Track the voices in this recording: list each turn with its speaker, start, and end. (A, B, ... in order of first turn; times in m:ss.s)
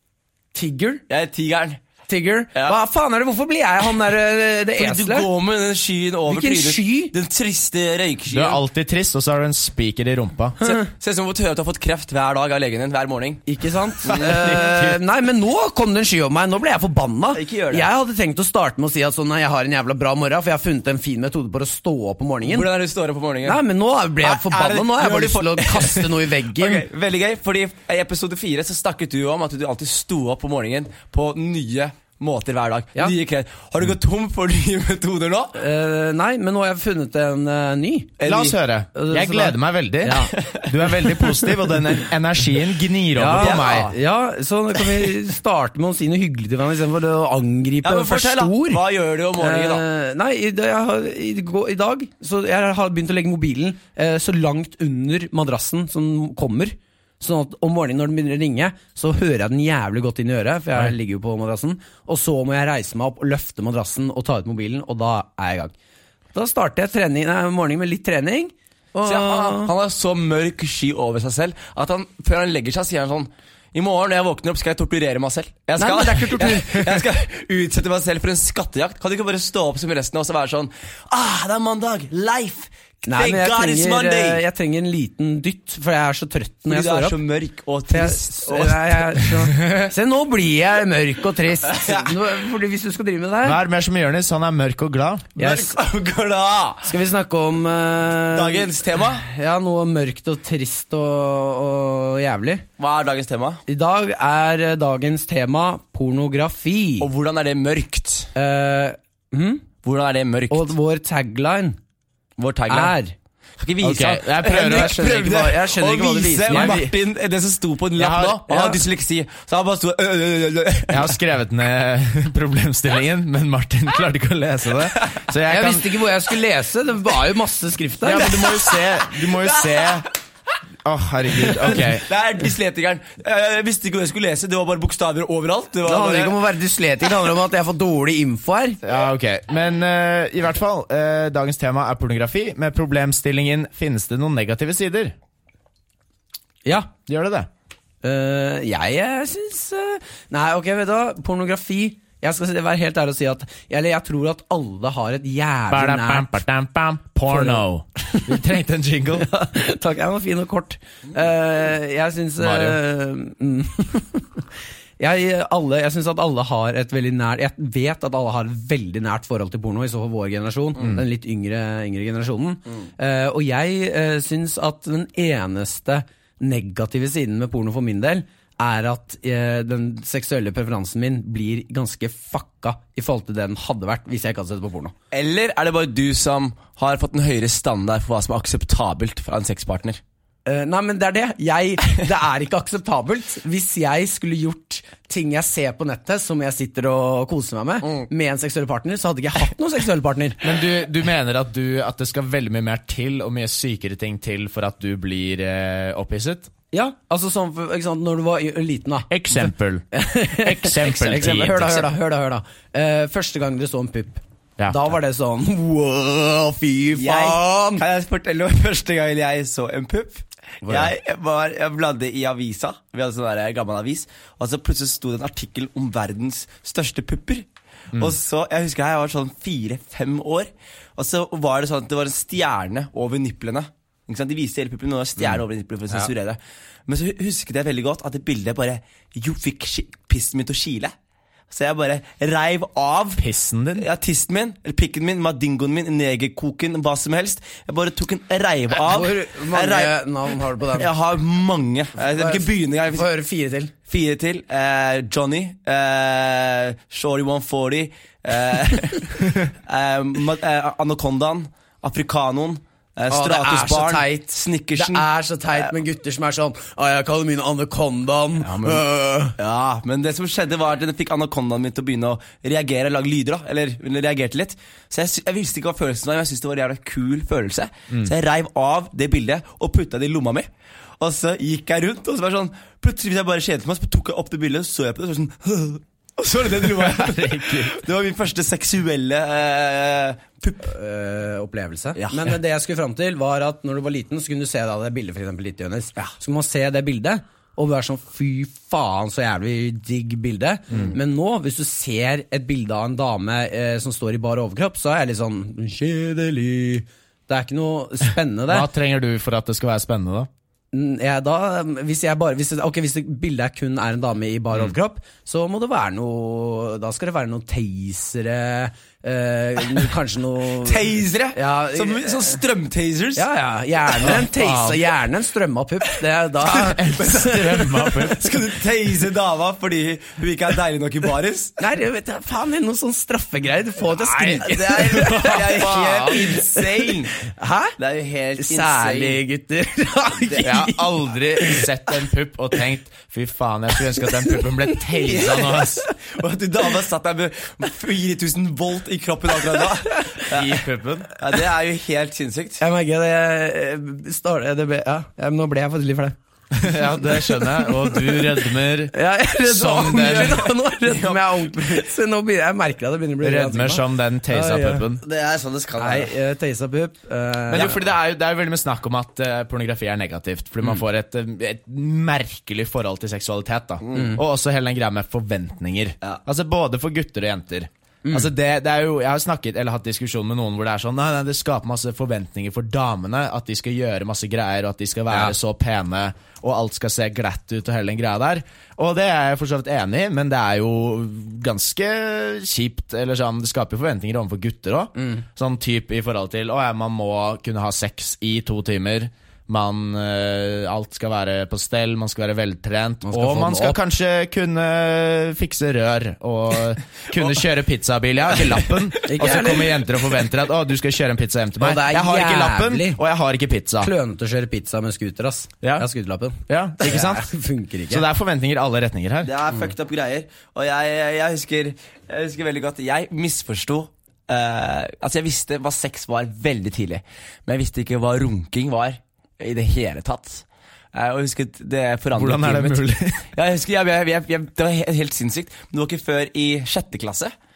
0:00.5-0:01.0 A
0:01.1-0:01.8 B
0:02.1-0:05.3 A
0:04.8-0:08.6 B
0:06.3-0:07.1 A
0:08.3-0:10.6 C
0:10.6-0:13.4 B
0:13.5-0:22.7 A
0:14.1-0:15.0 C
0:17.3-0:17.9 B
0:22.4-0:23.6 B
0:23.4-0:26.9 A
0:24.2-0:35.6 B
0:35.6-0:38.2 A
0:38.2-0:38.6 B
0:38.2-0:43.9 C
0:39.0-0:40.3 A
0:40.3-0:41.6 B
0:43.1-0:48.8 A
0:43.3-0:43.9 B
0:47.8-0:49.8 B
0:49.4-1:05.7 A
1:06.3-1:09.7 A
1:09.0-1:24.4 B
1:15.8-1:17.0 A
1:23.0-1:27.2 A
1:26.7-1:29.7 B
1:27.9-1:33.6 A
1:31.7-1:32.2 B
1:33.4-1:35.3 C
1:35.4-1:36.9 B
1:35.4-1:35.8 A
1:36.8-1:42.6 A
1:38.3-1:39.2 B
1:42.8-1:43.6 B
1:43.7-1:47.1 A
1:47.0-1:48.3 B
1:48.4-1:49.7 A
1:49.8-1:50.7 B
1:50.5-1:51.8 A
1:52.4-1:53.0 B
1:52.7-1:53.1 A
1:53.6-2:01.1 B
1:53.8-1:55.0 C
1:54.4-1:56.8 A
1:56.5-1:57.0 C
1:58.0-1:58.4 C
1:58.5-1:58.8 A
2:00.9-2:06.0 C
2:05.5-2:08.5 A
2:08.0-2:10.1 C
2:09.2-2:10.1 B
2:10.8-2:12.1 C
2:11.5-2:16.4 B
2:15.8-2:18.8 A
2:18.8-2:25.1 C
2:26.6-2:26.9 A
2:27.1-2:27.5 C
2:28.0-2:36.3 A
2:35.7-2:39.3 C
2:37.3-2:38.4 A
2:39.1-2:44.4 A
2:42.4-2:42.8 C
2:45.0-3:04.9 A
3:05.1-3:10.0 B
3:10.4-3:20.4 A
3:20.4-3:26.5 C
3:26.7-3:37.8 A
3:29.1-3:29.8 C
3:30.4-3:31.9 C
3:30.8-3:31.4 B
3:37.0-4:00.9 B
3:40.6-3:40.9 A
4:01.5-4:03.2 B
4:03.2-4:03.9 C
4:03.8-4:09.9 B
4:08.7-4:10.9 A
4:10.6-4:13.1 B
4:12.0-4:13.7 A
4:13.9-4:25.1 B
4:23.1-4:29.4 A
4:28.4-4:28.8 B
4:29.4-4:40.5 B
4:41.0-4:50.7 B
4:46.6-4:47.8 C
4:50.6-5:08.7 A
4:52.0-4:52.4 B
5:08.5-5:10.3 C
5:10.7-5:22.4 A
5:20.6-5:23.2 B
5:23.2-5:28.1 A
5:24.2-5:24.8 C
5:26.5-5:28.4 C
5:28.0-5:31.6 B
5:31.6-5:37.7 A
5:34.1-5:37.1 B
5:34.9-5:36.2 C
5:37.8-5:39.2 B
5:38.4-5:41.6 A
5:40.4-5:45.8 C
5:45.1-5:50.6 B
5:50.3-5:51.1 C
5:51.1-5:52.6 B
5:52.6-5:58.2 A
5:56.5-6:00.4 C
5:58.9-6:04.9 A
6:00.0-6:01.8 B
6:03.2-6:05.0 C
6:05.0-6:06.1 B
6:05.8-6:07.8 A
6:07.5-6:53.9 C
6:13.8-6:14.2 B
6:13.9-6:14.2 A
6:35.0-6:35.2 A
6:43.0-6:43.8 A
6:49.0-6:49.8 A
6:51.6-6:53.0 A
6:53.8-6:58.0 A
6:56.5-6:57.3 C
6:57.9-6:59.3 C
6:59.2-7:17.3 B
7:12.1-7:13.2 C